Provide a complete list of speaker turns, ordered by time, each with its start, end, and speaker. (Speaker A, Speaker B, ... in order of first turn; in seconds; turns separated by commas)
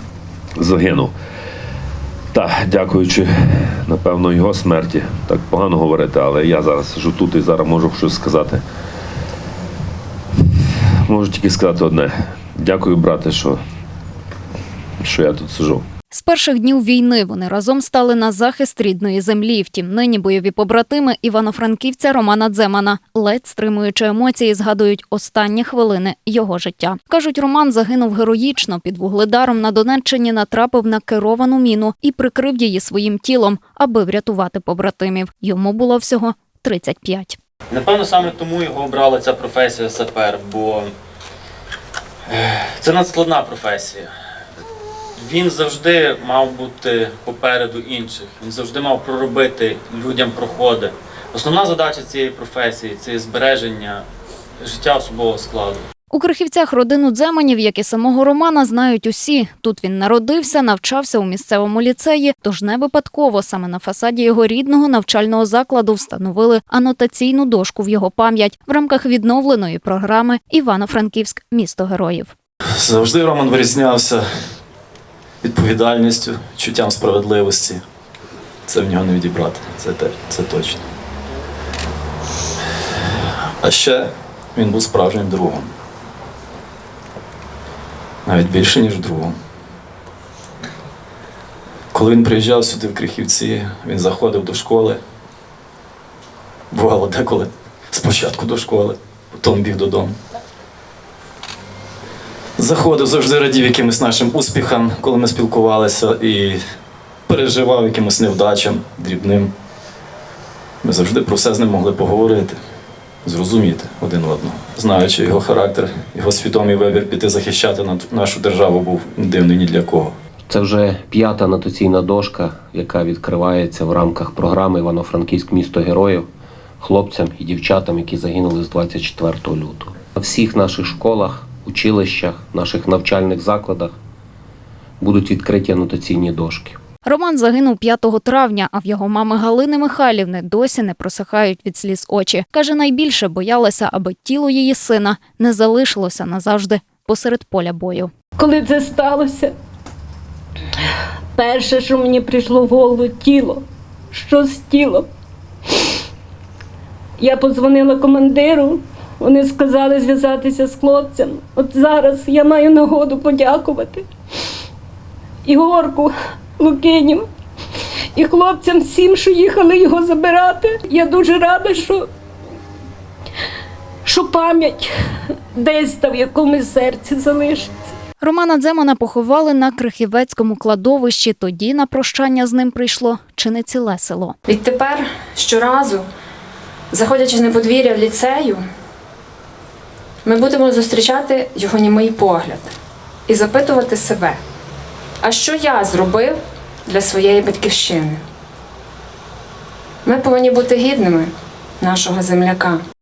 Speaker A: 0.6-1.1, Speaker A: 2.3-8.6, Speaker A: 11.0-13.6, Speaker A: 15.0-15.8, Speaker B: 16.1-37.4, Speaker C: 37.7-40.9, Speaker C: 42.3-44.1, Speaker C: 45.2-54.0, Speaker C: 54.6-55.8, Speaker B: 56.1-72.3, Speaker D: 72.8-74.2, Speaker D: 75.4-77.8, Speaker D: 78.7-80.8, Speaker D: 83.6-85.7, Speaker D: 88.2-89.3, Speaker D: 91.9-95.0, Speaker D: 96.7-100.2, Speaker D: 102.6-106.6, Speaker D: 107.3-109.5, Speaker D: 110.8-112.6, Speaker D: 113.2-120.1, Speaker E: 120.5-126.3, Speaker E: 126.8-133.9, Speaker E: 135.0-136.8, Speaker B: 137.1-148.1, Speaker F: 148.4-149.5, Speaker F: 151.3-155.1, Speaker F: 157.2-164.0, Speaker F: 165.4-167.3, Speaker F: 168.1-172.1, Speaker F: 174.0-174.9, Speaker F: 175.5-177.7, Speaker B: 178.2-184.3, Speaker G: 184.5-186.0, Speaker G: 186.9-188.6, Speaker G: 190.2-192.7, Speaker G: 193.3-194.4, Speaker G: 195.2-198.2, Speaker G: 200.0-201.3, Speaker G: 201.8-202.8